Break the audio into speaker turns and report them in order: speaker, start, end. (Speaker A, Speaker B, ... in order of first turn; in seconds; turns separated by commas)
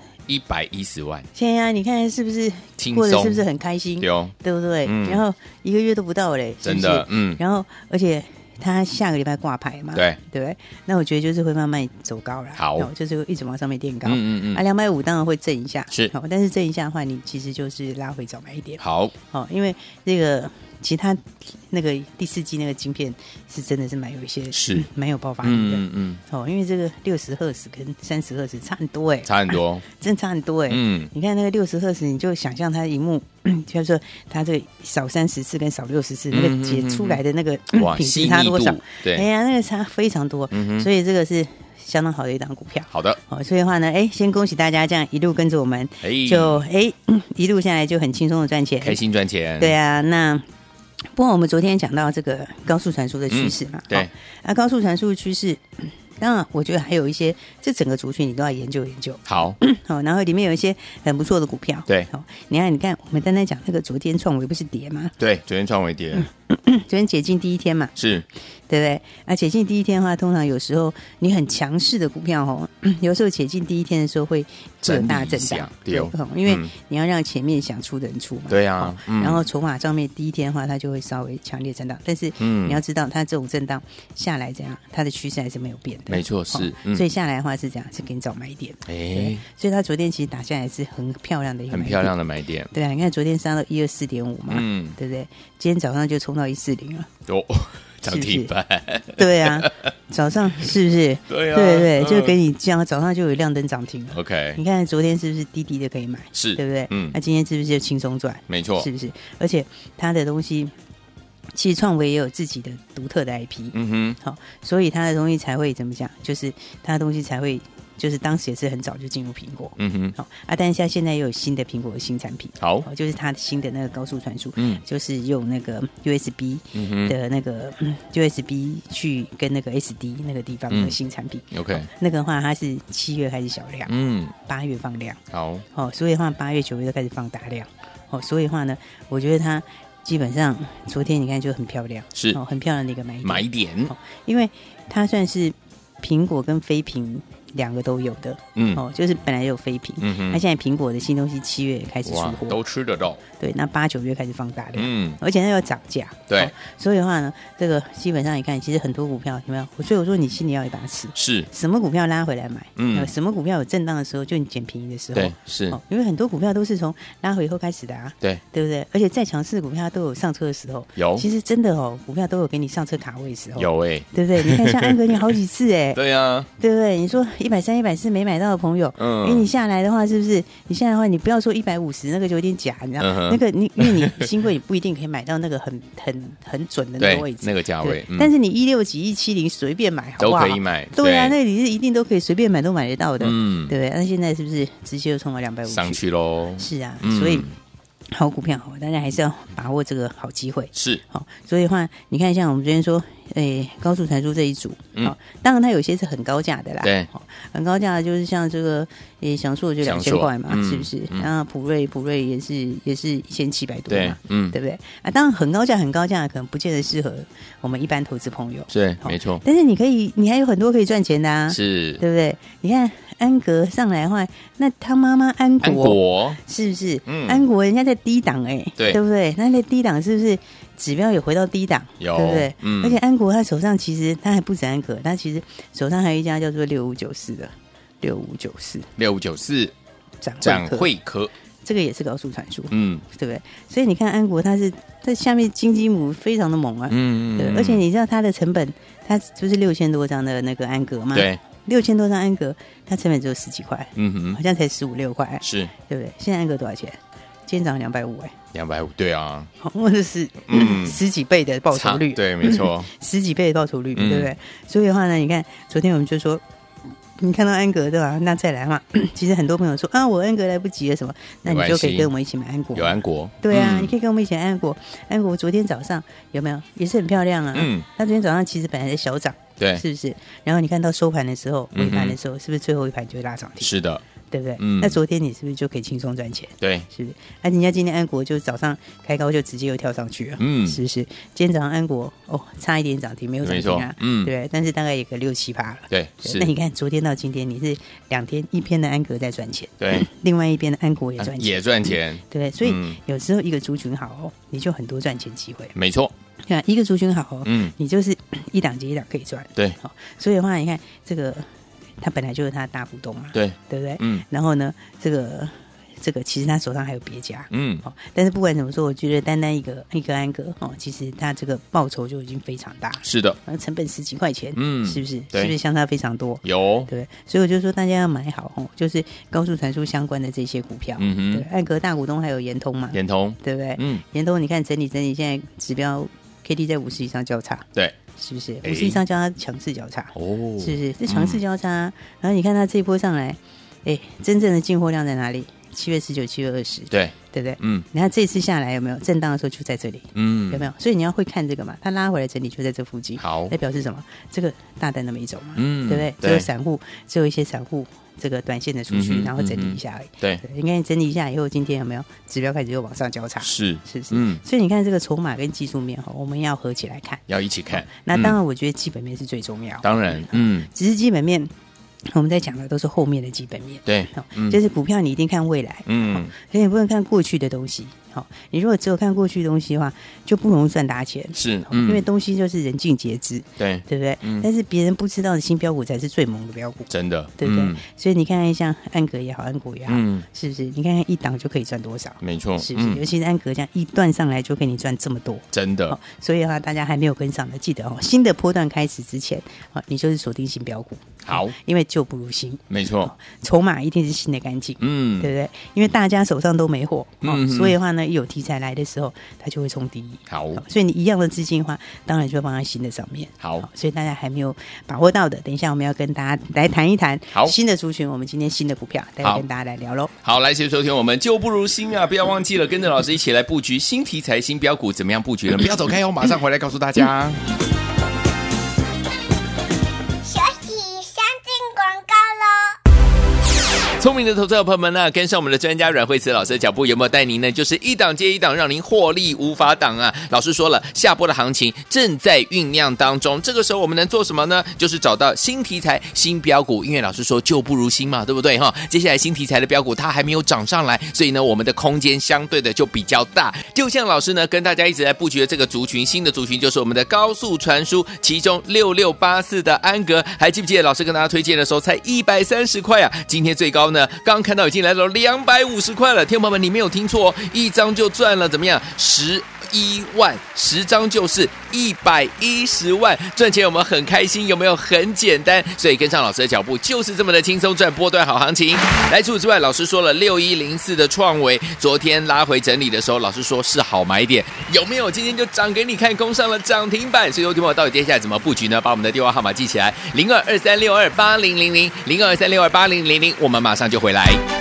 Speaker A: 0.3-1.3, Speaker B: 1.4-49.0, Speaker A: 2.8-3.4, Speaker A: 4.0-4.3, Speaker A: 4.8-5.2, Speaker A: 6.6-7.4, Speaker A: 12.6-12.9, Speaker A: 14.1-14.6, Speaker A: 18.8-19.1, Speaker A: 24.5-24.9, Speaker A: 25.4-26.2, Speaker A: 29.3-29.8, Speaker A: 30.7-31.1, Speaker A: 36.3-37.2, Speaker A: 37.7-39.2, Speaker A: 40.5-40.9, Speaker A: 42.9-43.2, Speaker A: 46.0-46.6, Speaker A: 48.8-49.8, Speaker B: 49.6-50.4, Speaker B: 51.1-65.1, Speaker A: 53.3-54.1, Speaker A: 59.2-59.6, Speaker A: 65.2-66.3, Speaker B: 66.2-68.0, Speaker A: 68.0-68.3, Speaker B: 68.7-92.1, Speaker A: 74.8-76.7, Speaker A: 78.5-79.4, Speaker A: 82.4-82.8, Speaker A: 86.1-87.0, Speaker A: 88.9-89.4, Speaker A: 91.7-92.7, Speaker B: 92.7-97.1, Speaker A: 94.5-95.0, Speaker A: 97.3-99.9, Speaker B: 98.1-98.5, Speaker B: 99.2-110.7, Speaker A: 101.3-102.4, Speaker A: 104.1-104.6, Speaker A: 106.3-107.2, Speaker A: 108.5-108.9, Speaker B: 111.5-133.9, Speaker A: 113.7-114.2, Speaker A: 119.8-120.2, Speaker A: 122.6-122.9, Speaker A: 124.6-124.8, Speaker A: 126.7-127.2, Speaker A: 130.7-131.0, Speaker A: 131.5-131.9, Speaker A: 133.9-134.3, Speaker B: 134.4-135.2, Speaker A: 135.3-135.7, Speaker B: 135.7-152.6, Speaker A: 142.2-142.4, Speaker A: 143.2-143.9, Speaker A: 148.6-148.8, Speaker A: 150.0-150.4, Speaker A: 152.1-153.2, Speaker B: 153.4-176.0, Speaker A: 154.8-155.2, Speaker A: 161.2-161.5, Speaker A: 162.8-163.1, Speaker A: 165.2-165.8, Speaker A: 171.0-171.3, Speaker A: 173.6-175.2, Speaker A: 175.9-176.5, Speaker B: 176.6-196.0, Speaker A: 179.0-179.5, Speaker A: 183.0-184.3, Speaker A: 187.0-188.3, Speaker A: 190.2-191.4, Speaker A: 193.2-193.7, Speaker A: 195.7-197.6, Speaker B: 196.6-197.5, Speaker B: 198.1-238.9, Speaker A: 200.7-201.0, Speaker A: 206.8-207.1, Speaker A: 209.8-211.3, Speaker A: 213.9-214.6, Speaker A: 218.7-219.4, Speaker A: 221.5-222.0, Speaker A: 225.6-226.4, Speaker A: 227.1-227.4, Speaker A: 232.0-233.0, Speaker A: 239.0-239.7, Speaker B: 240.2-240.9, Speaker A: 240.4-241.3, Speaker B: 241.6-258.3, Speaker A: 242.7-243.0, Speaker A: 246.9-247.8, Speaker A: 251.1-251.4, Speaker A: 254.0-254.4, Speaker A: 255.4-255.7, Speaker A: 258.5-259.5, Speaker B: 259.6-266.4, Speaker A: 260.5-261.0, Speaker A: 261.7-262.9, Speaker A: 263.9-264.3, Speaker B: 267.2-305.7, Speaker A: 271.5-272.1, Speaker A: 272.8-273.9, Speaker A: 277.5-277.9, Speaker A: 279.6-279.8, Speaker A: 281.7-282.2, Speaker A: 283.6-284.0, Speaker A: 284.6-285.0, Speaker A: 286.6-286.9, Speaker A: 290.4-290.8, Speaker A: 293.4-294.3, Speaker A: 295.9-296.5, Speaker A: 299.8-300.1, Speaker A: 301.2-303.0, Speaker A: 305.8-306.1, Speaker B: 306.5-311.5, Speaker A: 307.4-307.7, Speaker B: 312.0-371.5, Speaker A: 313.3-314.2, Speaker A: 317.5-317.8, Speaker A: 323.0-323.4, Speaker A: 324.6-325.5, Speaker A: 326.4-326.9, Speaker A: 331.0-331.5, Speaker A: 332.9-334.0, Speaker A: 338.6-339.0, Speaker A: 340.1-341.4, Speaker A: 346.9-347.9, Speaker A: 350.1-350.7, Speaker A: 353.2-353.6, Speaker A: 355.6-356.5, Speaker A: 358.9-360.4, Speaker A: 363.4-364.4, Speaker A: 367.3-368.4, Speaker A: 369.8-370.7, Speaker B: 372.1-420.1, Speaker A: 373.9-374.6, Speaker A: 375.9-376.3, Speaker A: 381.4-382.0, Speaker A: 383.6-384.5, Speaker A: 386.9-387.8, Speaker A: 389.9-390.3, Speaker A: 392.2-393.0, Speaker A: 395.5-396.0, Speaker A: 401.2-401.6, Speaker A: 402.7-403.1, Speaker A: 404.8-405.3, Speaker A: 407.2-407.8, Speaker A: 410.3-410.6, Speaker A: 413.4-413.7, Speaker A: 420.2-427.4, Speaker C: 430.2-432.8, Speaker A: 434.0-494.4